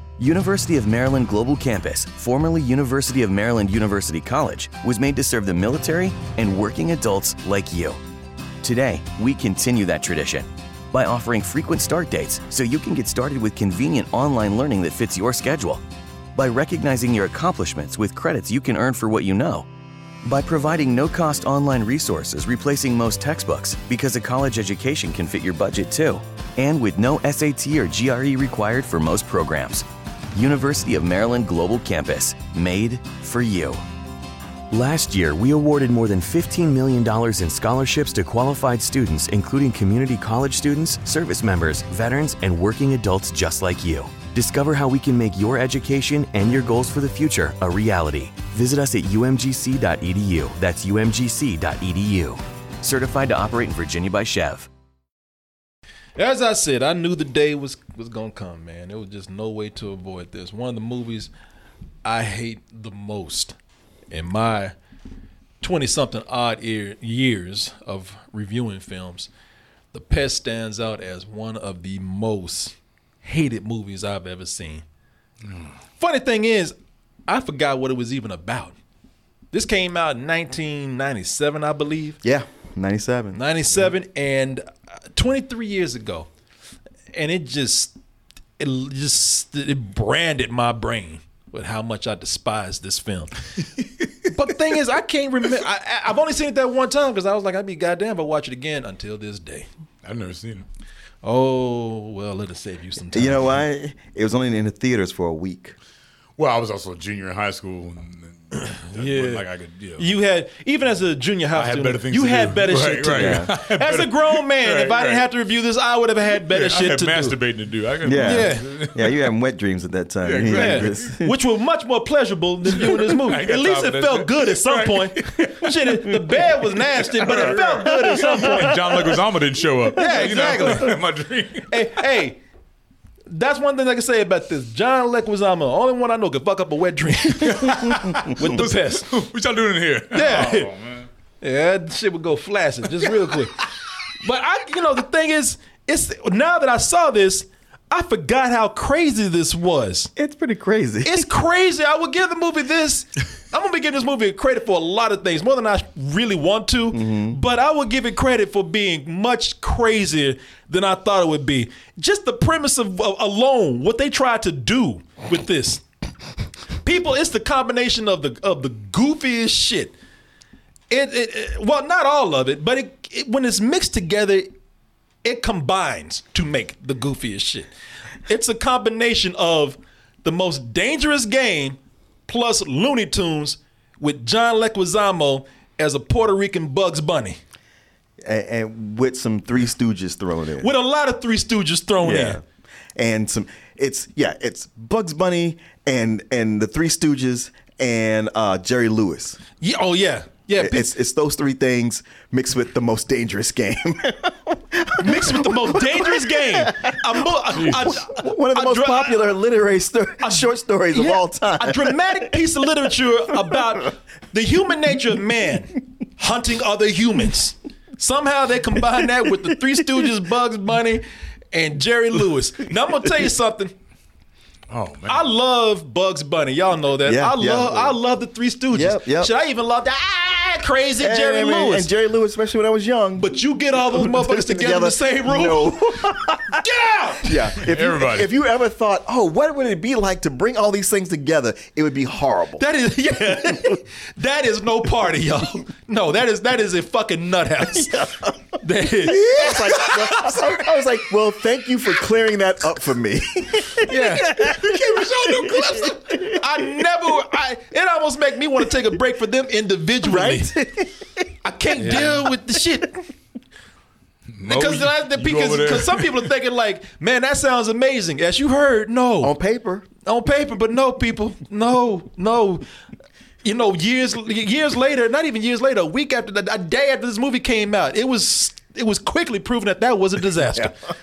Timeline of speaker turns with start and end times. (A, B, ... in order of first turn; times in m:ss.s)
0:00.2-0:08.0 A
0:08.6-0:15.8 A
0:16.3-0:19.7 A
0:20.2-0:33.8 A
0:34.7-0:54.7 A
0:56.2-1:01.3 B
1:02.0-1:03.6 B
1:04.1-1:04.7 B
1:05.6-1:09.3 B
1:09.9-1:14.8 B
1:16.0-1:16.8 B
1:17.3-1:18.8 B
1:19.5-1:22.2 B
1:22.2-1:23.4 C
1:23.3-1:26.3 B
1:27.1-1:27.9 B
1:28.6-1:33.4 B
1:33.8-1:34.1 D
1:34.3-1:39.7 B
1:40.0-1:40.6 D
1:41.2-1:43.5 B
1:43.1-1:45.8 C
1:46.4-1:50.1 D
1:48.7-1:49.4 B
1:50.0-1:57.4 B
1:51.5-1:55.2 D
1:53.1-1:53.5 C
1:56.4-1:59.1 D
1:58.0-2:01.3 C
1:58.2-1:58.7 B
2:00.2-2:01.1 D
2:00.5-2:08.9 B
2:02.9-2:05.7 D
2:06.9-2:11.6 D
2:07.4-2:08.4 C
2:09.9-2:10.9 B
2:11.7-2:12.4 B
2:13.3-2:19.1 B
2:17.4-2:21.1 D
2:20.1-2:20.7 B
2:21.4-2:23.6 B
2:24.2-2:30.1 B
2:30.2-2:31.3 C
2:31.0-2:45.8 B
2:36.9-2:37.4 C
2:46.8-2:49.9 B
2:50.9-2:54.5 B
2:55.2-2:57.7 B
2:58.3-3:07.4 B
3:08.2-3:10.7 C
3:10.6-3:12.4 B
3:12.0-3:12.4 C
3:13.0-3:19.4 C
3:19.6-3:20.9 B
3:20.6-3:32.4 C
3:25.0-3:29.3 B
3:30.2-3:43.7 B
3:44.7-3:45.2 D
3:45.1-3:51.9 B
3:47.0-3:48.0 C
3:48.7-3:49.3 C
3:51.0-3:56.6 C
3:53.2-3:55.8 B
3:56.6-3:57.3 B
3:57.2-4:02.6 C
3:57.6-3:58.3 D
4:02.6-4:10.4 B
4:07.7-4:08.3 C
4:09.0-4:13.8 C
4:13.8-4:14.6 B
4:13.9-4:15.9 D
4:14.4-4:14.7 C
4:15.3-4:20.5 B
4:20.0-4:21.1 C
4:21.4-4:23.0 B
4:21.8-4:22.3 D
4:24.4-4:26.3 D
4:24.4-4:29.3 B
4:29.2-4:29.8 C
4:30.0-4:32.6 B
4:33.4-4:40.7 B